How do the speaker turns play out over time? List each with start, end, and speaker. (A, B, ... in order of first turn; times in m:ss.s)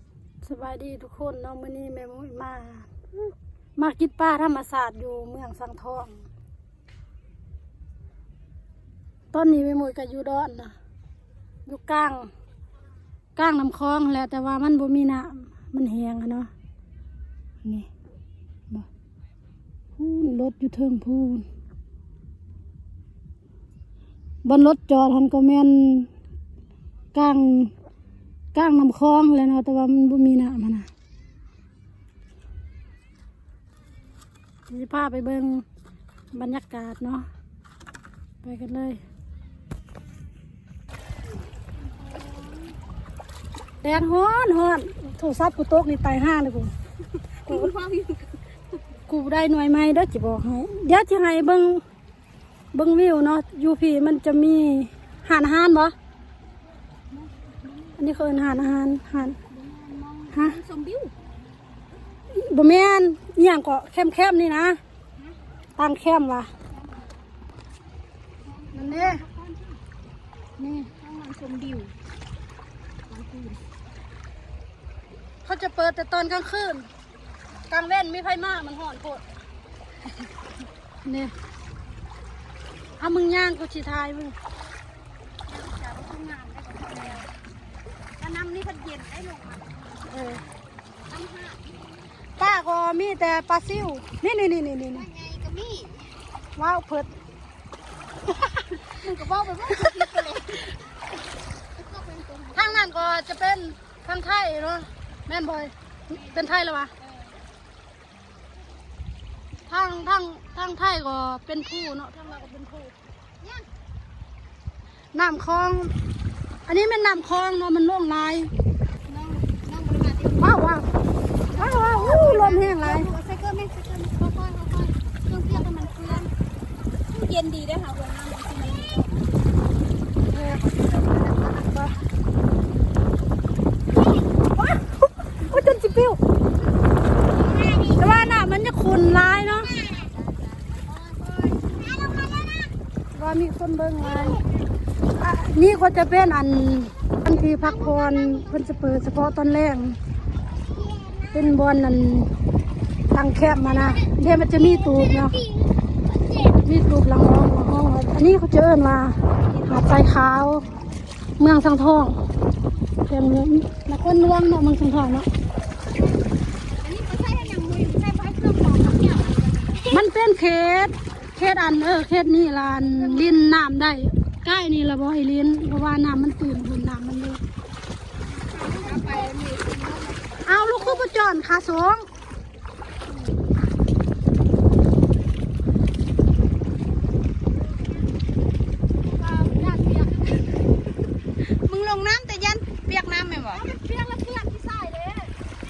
0:00.4-0:02.9 A
0:03.8-0:06.2 A
0:09.3-0:10.7 A
0:11.6-0:12.3 A
0:13.4-0:16.5 A
0:20.0-0:21.4 A
0:24.4-0:26.1 A
0:27.1-0:27.7 A
0:28.5-0:30.9 A
0:34.7-0:35.6 A
0:36.3-0:37.3 A
0:38.4-0:39.0 A
0:42.0-0:42.7 B
0:43.8-0:46.7 A
0:47.4-0:48.4 B
0:49.1-0:51.8 A
0:52.7-0:55.9 A
0:57.1-0:58.0 B
0:58.0-0:59.4 A
0:59.5-1:01.1 B
1:00.3-1:00.6 A
1:02.3-1:04.8 A
1:05.8-1:06.5 A
1:06.7-1:07.1 B
1:08.4-1:09.8 B
1:08.7-1:09.2 A
1:10.6-1:10.9 A
1:11.0-1:11.9 B
1:13.1-1:13.6 B
1:15.4-1:16.9 A
1:17.7-1:19.2 A
1:21.0-1:21.3 A
1:23.0-1:24.4 A
1:25.5-1:27.3 B
1:28.2-1:29.8 B
1:30.1-1:30.4 A
1:31.1-1:31.6 B
1:32.4-1:35.0 A
1:34.9-1:36.2 B
1:36.6-1:37.1 A
1:38.8-1:40.7 B
1:41.7-1:42.9 B
1:42.5-1:46.9 A
1:46.1-1:46.4 B
1:47.0-1:47.4 B
1:49.7-1:52.9 A
1:53.4-1:53.7 B
1:55.1-1:55.9 A
1:56.7-1:58.5 A
1:59.1-2:00.6 B
2:00.4-2:00.9 A
2:01.5-2:06.3 B
2:01.6-2:03.1 A
2:07.1-2:09.2 B
2:10.3-2:10.7 A
2:11.5-2:11.9 A
2:14.0-2:14.2 B
2:14.6-2:16.2 A
2:17.2-2:18.1 B
2:18.0-2:19.7 A
2:19.6-2:22.7 B
2:23.1-2:24.4 A
2:24.0-2:24.4 B
2:25.1-2:30.0 A
2:27.2-2:28.7 B
2:30.6-2:31.5 B
2:31.3-2:32.3 A
2:33.1-2:35.3 A
2:33.7-2:36.6 B
2:36.6-2:40.6 A
2:39.2-2:39.9 B
2:41.4-2:42.2 A
2:43.1-2:45.3 A
2:46.8-2:50.0 B
2:49.9-2:57.4 A
2:52.8-2:53.4 B
2:58.3-3:01.0 B
2:58.8-2:59.3 A
3:00.4-3:02.0 A
3:09.2-3:10.3 A
3:11.6-3:13.6 B
3:13.4-3:15.3 A